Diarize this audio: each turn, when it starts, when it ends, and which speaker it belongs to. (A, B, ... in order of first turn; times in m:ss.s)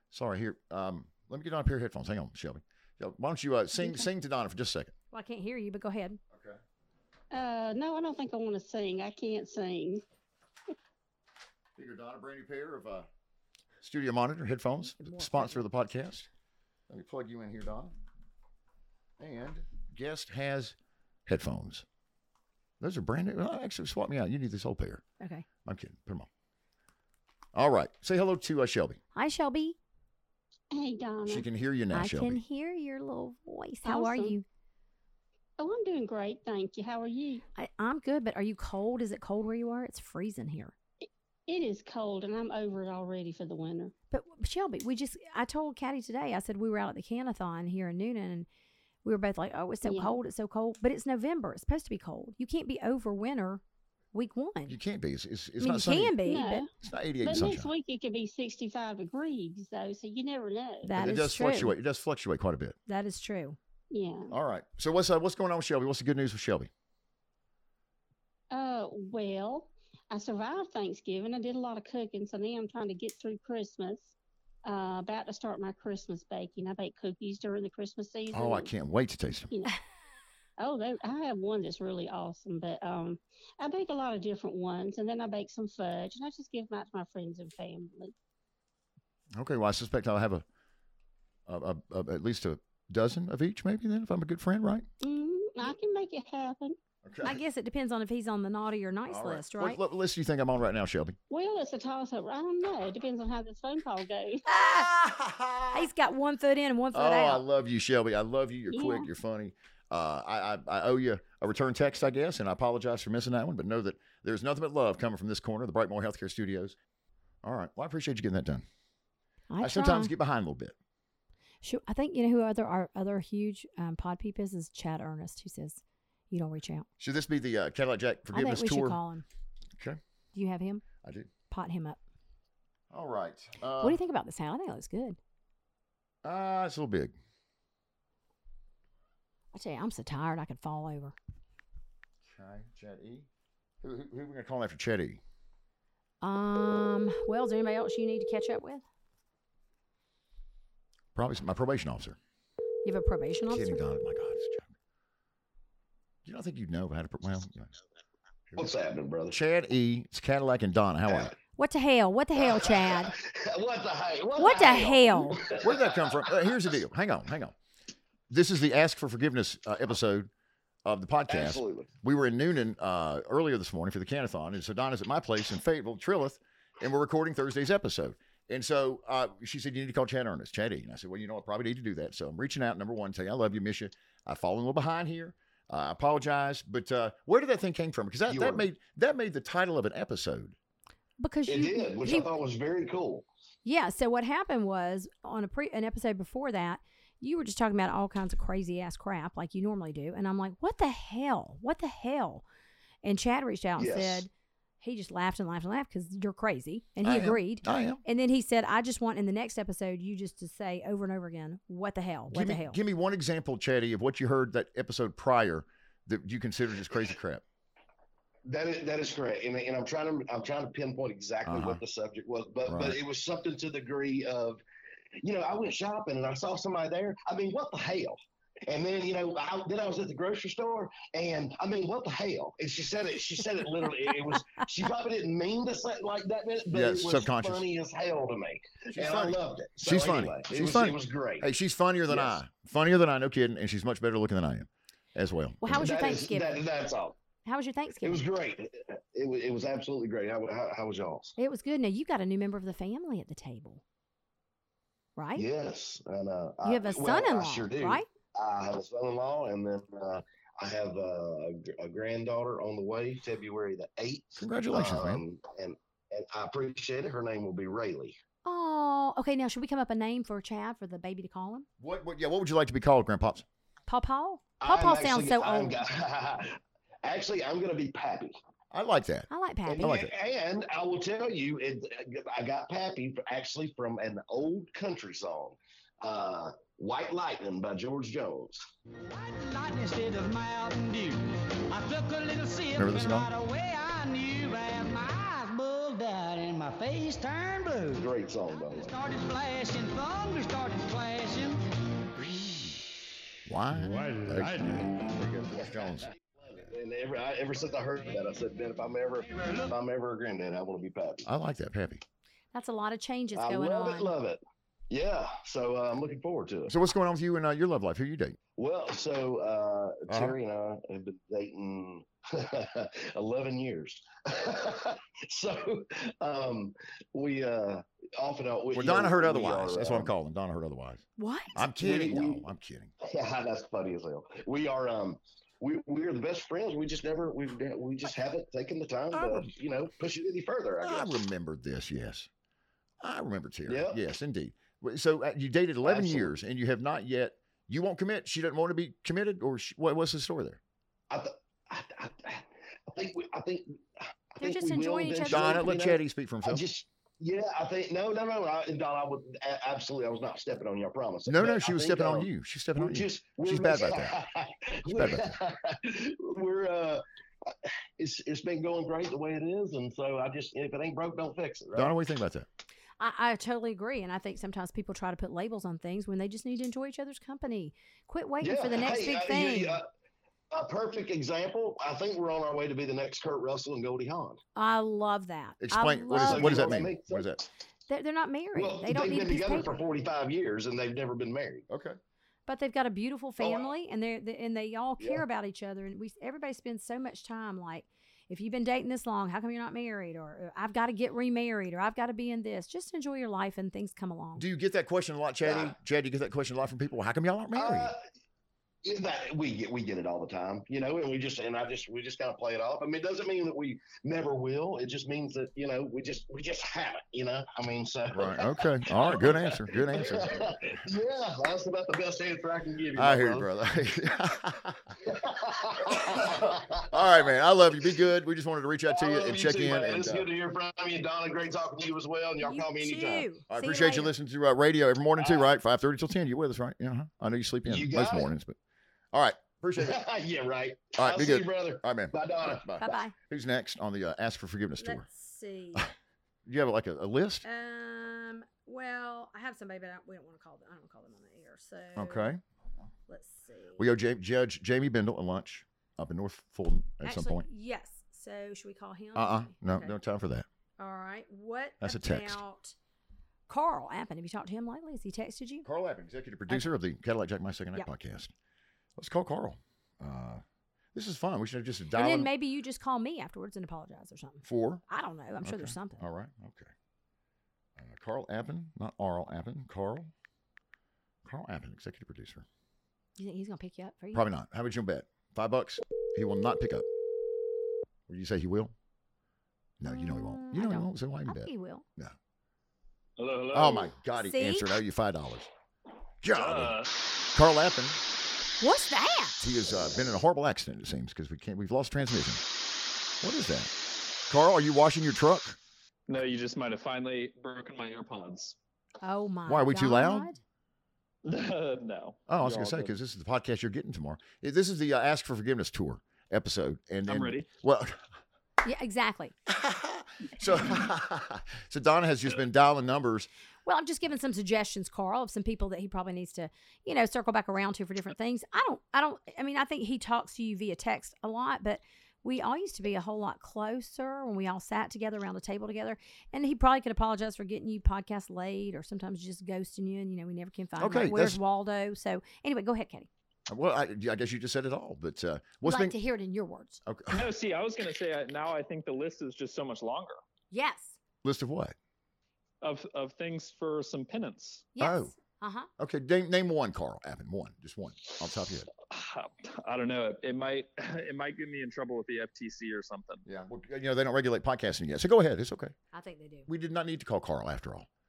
0:00.1-0:04.9 A
0:05.1-0:06.2 B
0:06.3-0:06.6 A
0:07.3-0:10.0 C
0:11.8-0:13.1 A
0:13.8-0:16.3 A
0:14.8-0:15.6 B
0:16.9-0:18.0 A
0:19.2-0:20.8 A
0:21.3-0:21.8 A
0:22.8-0:25.0 A
0:25.2-0:25.5 B
0:25.6-0:26.3 A
0:27.6-0:29.0 A
0:29.2-0:29.8 B
0:30.7-0:31.5 C
0:31.3-0:32.4 A
0:31.9-0:34.4 B
0:33.9-0:34.4 C
0:35.6-0:37.4 C
0:37.6-0:40.7 B
0:41.5-0:43.9 C
0:44.1-0:48.5 B
0:49.0-0:53.6 B
0:49.8-0:50.2 C
0:54.1-0:54.8 B
0:54.7-0:56.2 A
0:55.6-0:56.7 B
0:56.2-0:56.7 C
0:56.8-0:57.7 A
0:57.2-1:01.0 C
1:00.9-1:01.8 B
1:01.0-1:02.8 A
1:02.9-1:03.6 B
1:03.9-1:04.3 C
1:04.3-1:06.7 A
1:08.5-1:18.7 C
1:18.3-1:19.5 A
1:20.6-1:28.1 C
1:29.4-1:30.4 A
1:31.5-1:34.9 A
1:35.0-1:36.8 C
1:37.0-1:37.4 A
1:37.2-1:39.8 B
1:39.1-1:41.2 A
1:41.3-1:44.5 C
1:44.5-1:45.9 A
1:45.7-1:47.4 B
1:46.9-1:56.8 A
1:48.7-1:49.1 C
1:57.4-1:58.6 A
1:59.5-2:00.1 B
1:59.6-2:00.8 A
2:01.6-2:06.9 B
2:07.0-2:09.0 A
2:08.3-2:09.2 B
2:10.3-2:10.9 B
2:11.0-2:11.3 A
2:11.5-2:12.0 B
2:12.9-2:14.0 A
2:13.8-2:15.2 B
2:16.2-2:17.2 A
2:19.5-2:21.2 B
2:22.2-2:23.3 A
2:23.8-2:25.2 A
2:26.2-2:28.8 B
2:31.2-2:32.2 A
2:32.8-2:33.8 B
2:33.5-2:34.7 A
2:36.2-2:37.7 A
2:38.6-2:39.4 D
2:39.3-2:41.3 A
2:41.1-2:41.4 D
2:41.5-2:43.1 B
2:42.4-2:46.7 D
2:44.4-2:45.4 B
2:45.6-2:47.6 A
2:48.3-2:50.3 A
2:50.8-3:10.6 A
2:51.3-2:51.9 D
3:08.3-3:08.7 D
3:11.2-3:12.3 B
3:11.5-3:13.3 D
3:13.6-3:22.4 B
3:23.0-3:24.3 B
3:23.8-3:24.3 D
3:24.8-3:32.8 B
3:27.0-3:28.0 A
3:32.3-3:37.4 A
3:38.5-3:44.6 D
3:41.5-3:41.8 A
3:42.7-3:43.0 A
3:45.2-4:01.5 D
3:56.7-3:57.6 A
3:58.9-4:05.9 A
4:02.1-4:02.4 D
4:05.6-4:06.6 B
4:05.7-4:07.2 D
4:07.4-4:08.2 B
4:08.0-4:11.4 D
4:11.4-4:13.8 B
4:15.2-4:15.5 B
4:15.4-4:28.2 D
4:16.6-4:18.1 B
4:24.4-4:25.2 A
4:28.4-4:31.7 B
4:31.8-4:33.5 A
4:33.9-4:35.8 B
4:34.6-4:38.4 D
4:38.7-4:39.3 A
4:39.3-4:39.9 B
4:39.7-4:48.7 D
4:39.8-4:40.1 A
4:49.1-4:51.2 E
4:51.7-4:58.1 E
4:52.8-4:53.3 A
4:57.9-4:59.0 D
4:58.7-5:01.6 E
5:02.2-5:02.7 A
5:03.5-5:06.1 A
5:05.5-5:11.3 D
5:09.4-5:09.7 E
5:11.2-5:12.0 A
5:12.5-5:14.1 B
5:13.3-5:16.7 D
5:16.7-5:18.4 A
5:18.6-5:30.1 D
5:20.1-5:20.4 A
5:28.7-5:32.9 A
5:31.2-5:31.6 B
5:31.8-5:32.4 D
5:33.0-5:41.1 D
5:39.1-5:39.5 A
5:40.8-5:42.3 A
5:43.0-5:50.6 A
5:43.7-5:44.0 D
5:45.8-5:46.3 D
5:51.1-6:12.0 D
5:54.4-5:55.7 B
5:55.3-5:56.6 A
6:01.3-6:04.2 A
6:04.9-6:05.3 A
6:11.8-6:12.5 A
6:13.0-6:19.8 B
6:18.4-6:19.9 D
6:20.5-6:24.4 D
6:24.6-6:26.8 B
6:25.6-6:27.4 A
6:26.2-6:27.4 D
6:27.9-6:29.8 B
6:28.5-6:31.7 D
6:31.7-6:32.0 A
6:32.5-6:44.4 B
6:33.4-6:33.7 D
6:35.0-6:35.2 D
6:44.4-6:47.9 A
6:45.4-6:45.8 D
6:47.5-6:48.0 D
6:48.8-7:03.5 D
6:58.1-7:00.8 A
7:03.0-7:05.0 A
7:05.0-7:07.3 D
7:06.0-7:10.3 A
7:08.9-7:13.3 D
7:12.4-7:14.1 B
7:13.5-7:18.6 A
7:15.2-7:15.5 D
7:17.7-7:18.3 D
7:19.1-7:20.0 A
7:19.8-7:23.0 D
7:21.0-7:25.1 A
7:22.8-7:23.2 B
7:24.8-7:25.9 B
7:26.5-7:27.4 A
7:27.4-7:32.3 B
7:32.0-7:32.4 A
7:33.1-7:33.8 B
7:33.8-7:37.5 A
7:37.0-7:40.0 B
7:39.2-7:40.5 A
7:40.8-7:42.8 B
7:41.8-7:42.4 A
7:43.5-7:45.7 B
7:45.6-7:48.3 A
7:49.0-7:50.4 A
7:50.9-7:52.3 A
7:51.9-7:56.0 B
7:54.4-7:54.8 A
7:55.4-7:56.7 A
7:57.8-8:00.1 A
8:01.2-8:02.5 A
8:03.2-8:04.3 B
8:04.1-8:06.9 A
8:08.1-8:08.7 A
8:09.8-8:12.1 A
8:09.8-8:11.8 B
8:13.2-8:13.9 F
8:13.5-8:15.5 A
8:14.2-8:14.7 B
8:16.2-8:16.8 A
8:16.3-8:16.9 F
8:17.3-8:18.0 A
8:18.6-8:19.4 B
8:19.4-8:22.4 A
8:23.2-8:23.8 A
8:24.3-8:25.6 A
8:26.1-8:28.6 F
8:29.0-8:30.4 B
8:29.5-8:30.3 A
8:31.2-8:32.9 F
8:32.3-8:38.0 A
8:37.1-8:37.5 F
8:38.6-8:39.3 B
8:39.5-8:43.3 A
8:43.6-9:03.1 B
9:00.8-9:01.4 A
9:03.5-9:06.0 A
9:05.6-9:06.8 B
9:06.8-9:07.3 A
9:07.1-9:10.2 F
9:10.5-9:11.0 B
9:11.2-9:11.8 A
9:12.6-9:14.7 F
9:14.8-9:15.7 B
9:14.8-9:15.1 A
9:15.8-9:18.7 A
9:18.9-9:23.2 F
9:23.2-9:25.8 A
9:25.9-9:26.5 B
9:26.5-9:27.9 A